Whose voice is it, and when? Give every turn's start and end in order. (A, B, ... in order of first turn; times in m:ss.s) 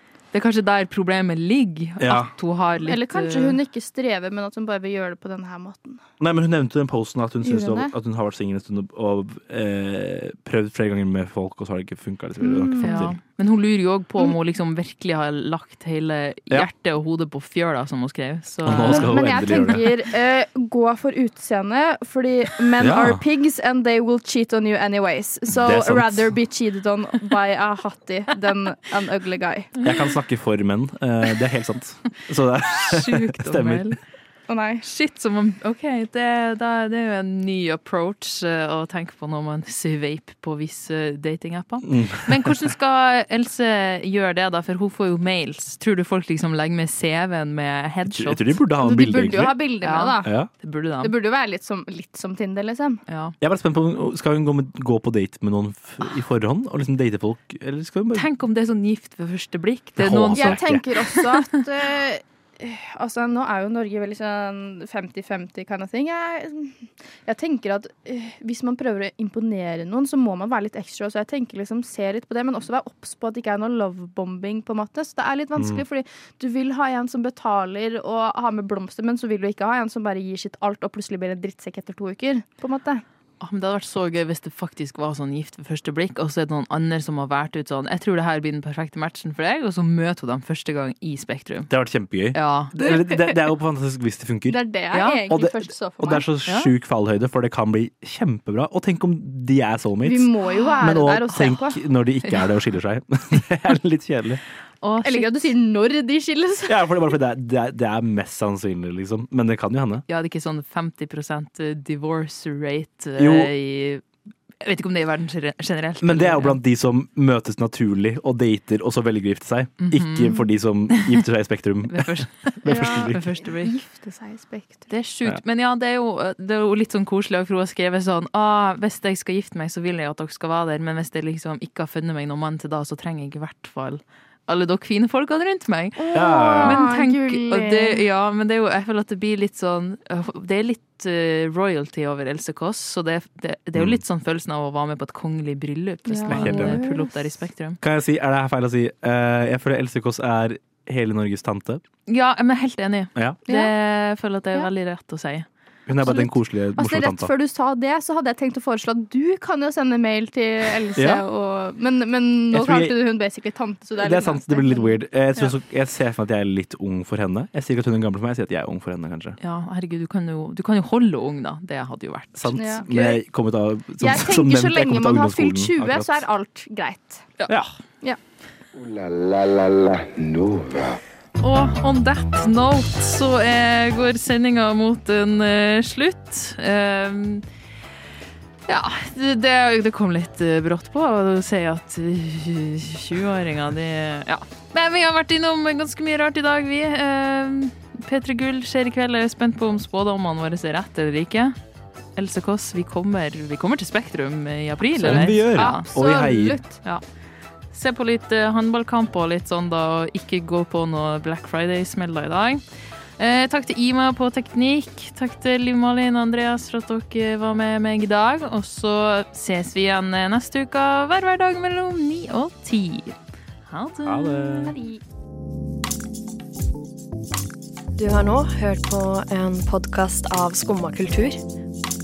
0:00.3-0:03.6 A
0:02.0-0:02.3 B
0:02.8-0:06.0 C
0:06.2-0:13.2 B
0:07.4-0:07.9 C
0:12.4-0:13.0 C
0:12.8-0:19.7 A
0:18.6-0:19.9 B
0:18.8-0:29.7 C
0:22.8-0:23.2 B
0:25.5-0:26.4 B
0:29.8-0:33.9 B
0:32.8-0:34.0 A
0:34.5-0:34.8 C
0:34.8-0:48.6 A
0:41.8-0:42.5 B
0:48.1-0:49.6 B
0:48.8-0:50.3 C
0:49.8-0:51.1 A
0:50.2-0:50.5 B
0:51.0-0:53.0 C
0:53.1-0:53.3 A
0:53.4-0:58.3 B
0:58.1-1:01.4 A
1:00.0-1:00.8 B
1:00.3-1:23.0 C
1:15.6-1:15.8 B
1:23.4-1:31.7 A
1:31.7-1:34.6 B
1:32.3-1:32.8 A
1:32.8-1:33.3 C
1:34.5-1:36.2 C
1:34.9-1:35.2 A
1:35.3-1:44.4 B
1:40.0-1:41.8 C
1:44.8-1:45.3 A
1:45.0-1:47.0 C
1:46.7-1:50.0 B
1:50.1-1:54.0 A
1:53.2-1:53.5 B
1:54.6-1:56.6 A
1:56.0-2:03.3 B
1:59.8-2:01.2 A
2:01.9-2:03.7 A
2:02.7-2:04.9 C
2:04.9-2:27.8 A
2:16.0-2:18.0 C
2:16.1-2:16.8 B
2:26.1-2:27.1 C
2:26.3-2:26.9 B
2:27.8-2:31.8 B
2:32.1-2:35.5 A
2:33.5-2:33.7 C
2:35.9-2:37.3 B
2:36.0-2:45.5 C
2:41.0-2:41.2 B
2:42.5-2:43.0 B
2:44.0-2:49.4 B
2:49.4-2:52.8 A
2:52.4-2:56.2 B
2:52.6-2:53.2 C
2:54.0-2:57.3 C
2:58.7-3:01.0 D
3:01.4-3:07.4 A
3:08.7-3:21.6 A
3:22.2-3:25.9 A
3:25.0-3:26.6 B
3:25.0-3:26.8 C
3:27.7-3:32.6 A
3:33.2-3:43.2 A
3:43.7-3:44.7 A
3:44.1-3:44.7 B
3:44.6-3:45.0 C
3:48.0-3:51.4 E